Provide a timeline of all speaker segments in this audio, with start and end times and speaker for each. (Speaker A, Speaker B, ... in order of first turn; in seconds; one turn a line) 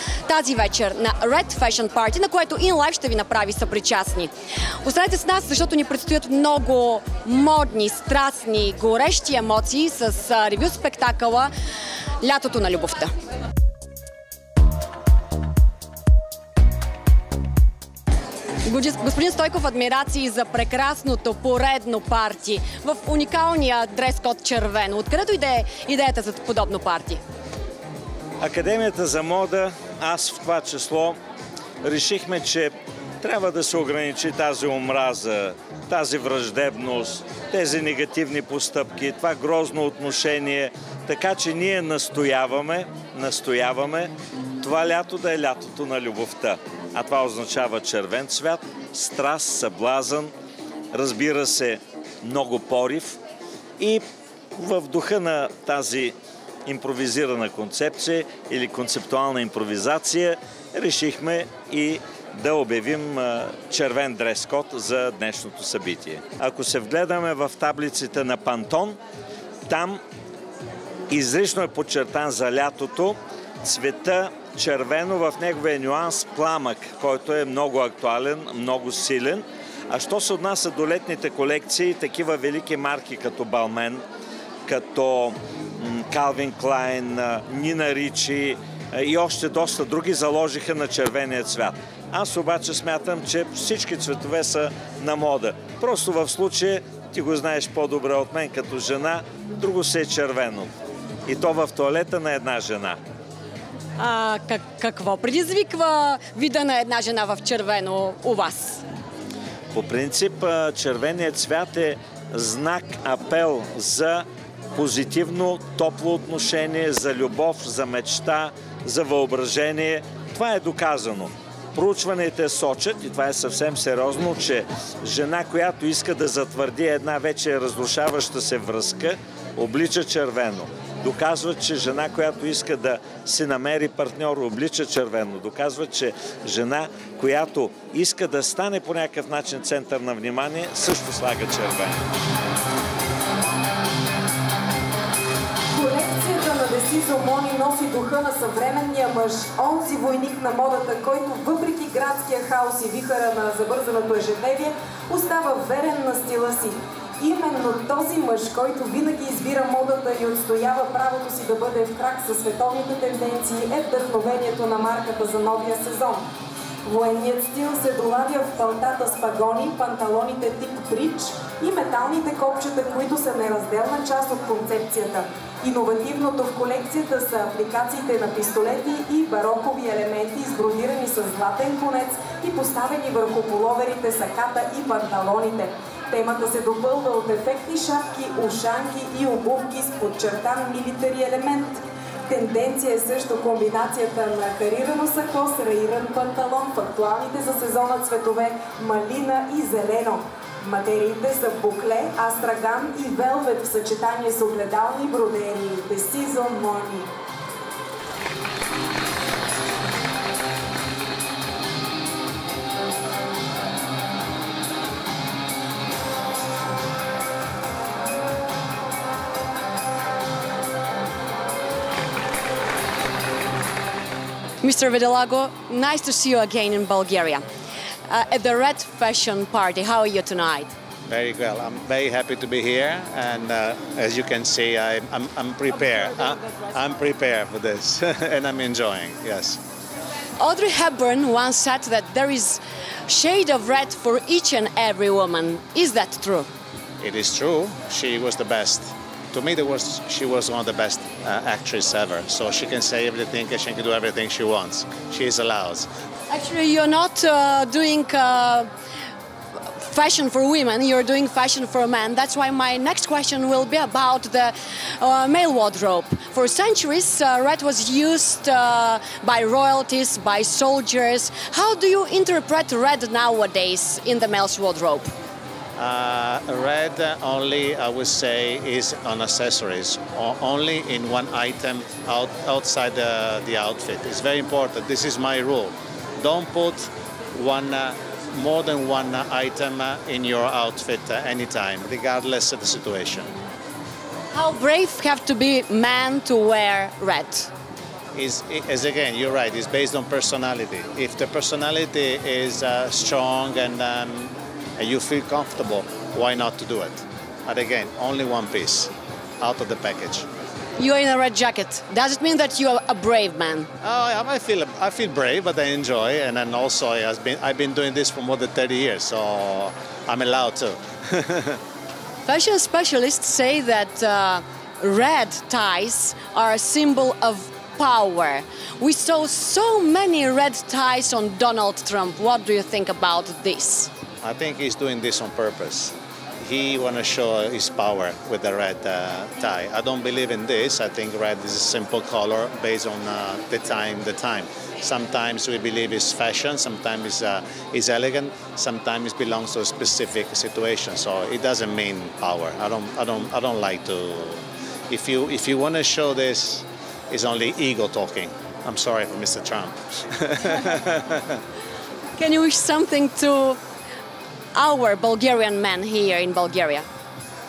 Speaker A: 0.3-4.3
Speaker A: 4.8-11.5
Speaker A: 12.2-13.1
Speaker A: 18.6-27.2
Speaker B: 28.4-31.2
Speaker B: 31.8-50.3
Speaker B: 50.9-53.2
Speaker B: 53.8-54.0
Speaker B: 54.6-56.1
Speaker B: 56.7-69.0
Speaker B: 69.7-70.0
Speaker B: 71.1-84.0
Speaker B: 84.7-100.7
Speaker B: 101.3-103.0
Speaker A: 104.0-108.8
Speaker B: 109.7-142.0
Speaker C: 145.7-166.2
Speaker C: 166.8-207.1
Speaker A: 224.6-227.4
Speaker A: 228.1-230.7
Speaker D: 231.1-239.6
Speaker A: 240.4-246.5
Speaker D: 247.0-255.9
Speaker A: 256.3-258.7
Speaker A: 259.6-275.1
Speaker D: 275.8-293.3
Speaker A: 294.3-297.5
Speaker D: 298.1-310.3
Speaker A: 310.8-313.7
Speaker D: 313.8-321.6
Speaker A: 322.3-333.9
Speaker D: 334.2-361.4
Speaker A: 362.2-363.6
Speaker A: 364.6-366.9